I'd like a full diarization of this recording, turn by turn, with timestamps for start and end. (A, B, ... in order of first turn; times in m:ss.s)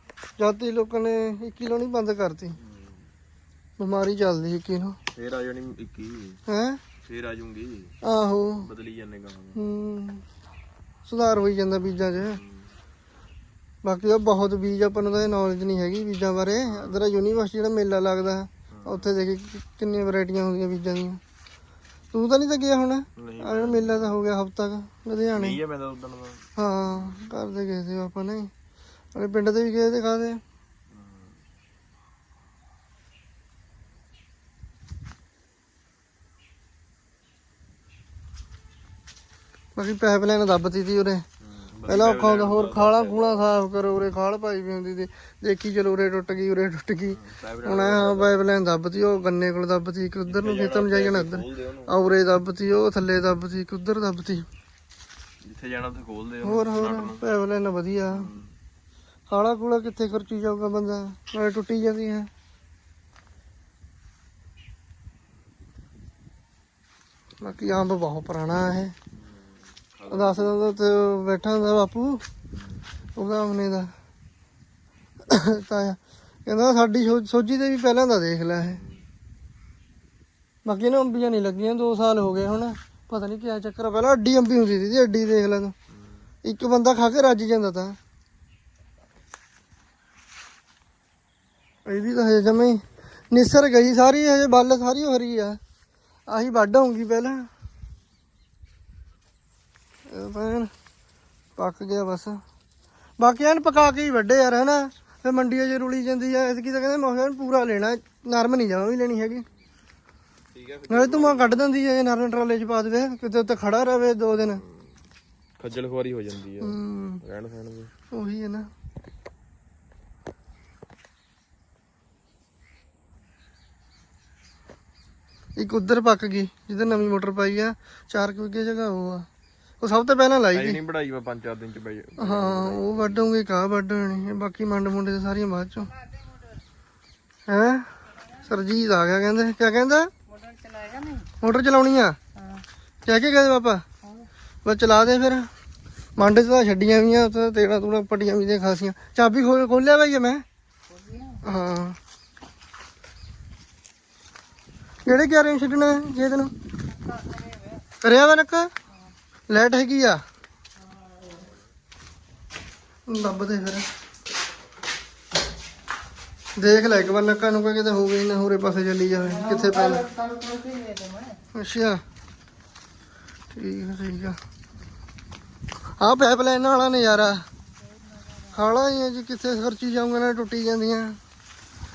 0:00.4-0:02.6 A
0:02.6-0:03.1 B
0:03.8-0:05.0 A
0:05.1-0:06.4 B
0:06.5-0:06.8 A
0:07.0-0:08.0 B
0:08.0-0:08.7 A
0:08.6-0:09.6 B
0:09.6-0:10.2 A
0:11.1-0:12.4 A
0:12.1-0:12.7 B
0:13.8-0:21.2 A
0:16.6-0:17.0 B
0:18.7-0:19.2 B
0:22.1-0:25.6 A
0:23.2-0:24.2 B
0:25.3-0:27.3 B
0:26.6-0:28.5 A
0:29.2-0:30.4 A
0:30.9-0:31.4 B
0:39.8-0:41.2 A
0:41.4-0:43.5 B
0:41.9-0:54.5 A
0:47.1-0:48.4 B
0:50.3-0:52.0 B
0:55.4-0:57.2 B
0:56.4-0:58.3 A
0:58.1-0:58.6 B
0:59.3-1:02.3 A
1:07.4-1:09.0 A
1:09.1-1:10.6 B
1:10.1-1:12.2 A
1:12.5-1:12.8 B
1:13.2-1:13.9 A
1:15.3-1:18.8 A
1:18.7-1:19.1 B
1:20.6-1:25.8 A
1:25.9-1:26.2 B
1:26.4-1:28.0 A
1:31.9-1:35.6 A
1:36.3-1:37.5 A
1:40.1-1:40.7 A
1:41.6-1:42.4 A
1:43.2-1:49.5 A
1:50.5-1:51.6 B
1:50.9-1:54.6 A
1:54.4-1:54.9 B
1:55.6-1:57.9 B
1:56.6-1:57.2 A
1:58.1-1:58.7 A
2:05.6-2:09.3 A
2:06.8-2:07.1 B
2:09.8-2:10.8 A
2:10.5-2:13.4 B
2:12.2-2:15.9 A
2:15.9-2:16.6 C
2:17.5-2:17.9 A
2:18.2-2:18.5 C
2:18.4-2:20.1 A
2:20.3-2:21.3 C
2:21.4-2:22.2 A
2:22.4-2:22.6 C
2:23.0-2:23.8 A
2:24.0-2:24.3 C
2:24.6-2:25.5 A
2:26.2-2:30.4 A
2:30.9-2:31.4 C
2:31.4-2:32.0 A
2:35.1-2:36.5 A
2:36.9-2:37.8 C
2:38.0-2:38.7 A
2:39.5-2:40.2 A
2:40.8-2:41.5 C
2:43.1-2:43.9 A
2:46.6-2:50.0 A
2:49.1-2:51.4 C
2:51.5-2:52.0 A
2:53.5-2:54.4 A
2:56.0-2:57.4 A
2:57.8-2:58.8 C
2:58.5-3:01.2 A